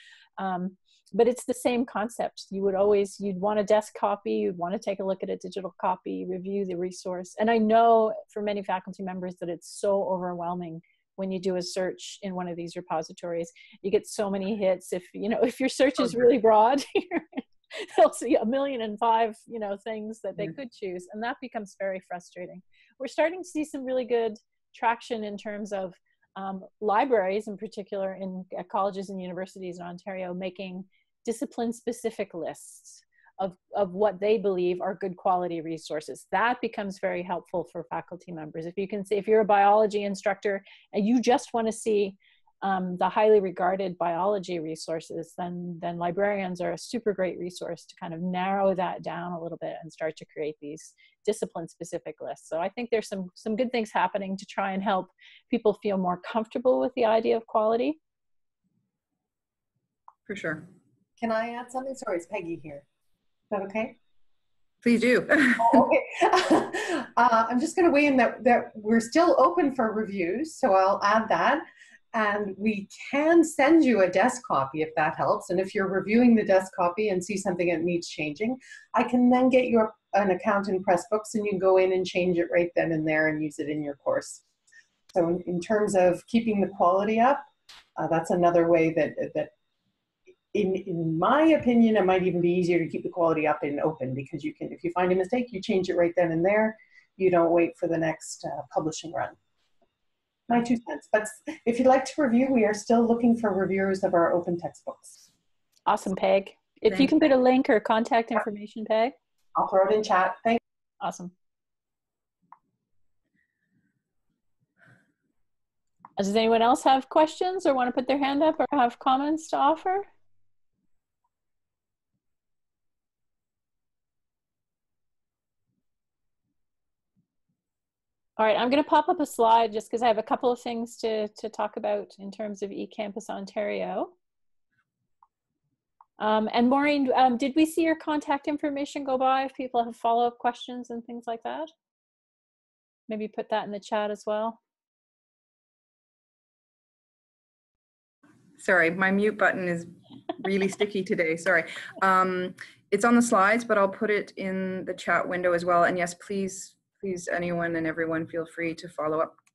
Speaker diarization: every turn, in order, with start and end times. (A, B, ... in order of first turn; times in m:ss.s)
0:00.4-0:58.0 A
1:00.3-1:00.7 B
1:01.2-1:02.8 C
1:03.5-1:04.0 C
1:04.8-1:05.8 B
1:05.6-1:24.4 C
1:25.1-1:29.5 C
1:30.5-1:39.4 C
1:40.5-1:45.3 C
1:45.9-1:49.2 A
1:49.6-1:50.6 C
1:51.0-1:51.3 A
1:56.2-2:00.1 A
2:08.4-2:14.1 A
2:16.2-2:21.7 A
2:23.1-2:24.6 A
2:28.6-2:39.3 B